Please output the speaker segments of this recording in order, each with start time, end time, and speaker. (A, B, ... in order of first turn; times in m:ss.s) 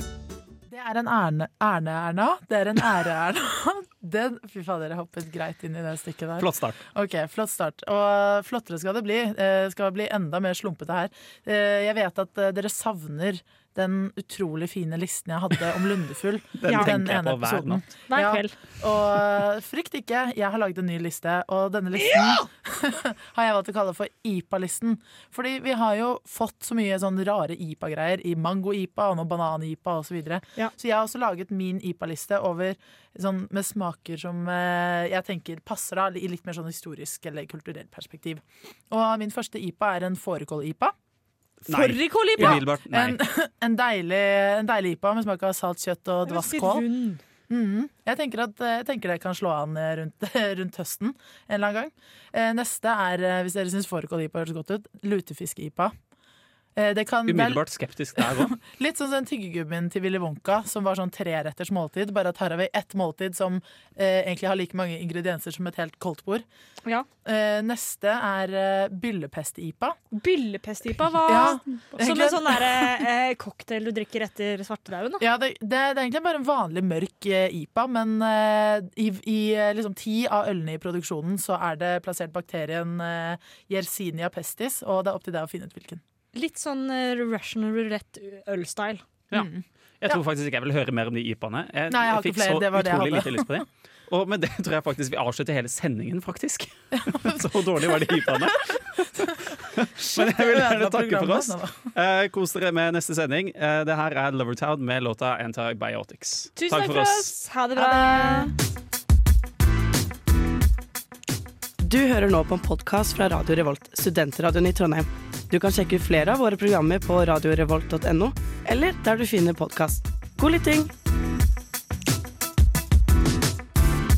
0:00.7-0:40.9 A
0:06.4-0:06.8 B
0:16.6-0:17.8 B
0:18.1-0:18.6 C
0:41.6-0:43.2 B
0:41.7-0:42.6 C
0:42.4-0:46.9 A
0:46.2-0:47.2 C
0:47.5-0:55.9 A
0:56.7-0:57.6 A
0:57.3-0:58.6 B
0:58.2-1:06.4 A
1:07.2-1:10.0 A
1:10.1-1:15.2 C
1:11.2-1:13.0 A
1:15.2-1:26.0 A
1:26.3-1:29.0 C
1:29.3-1:47.3 B
1:29.3-1:30.2 A
1:31.9-1:33.6 A
1:37.0-1:39.5 A
1:40.1-1:41.9 A
1:46.6-1:48.5 C
1:47.8-1:48.5 A
1:51.8-2:00.9 D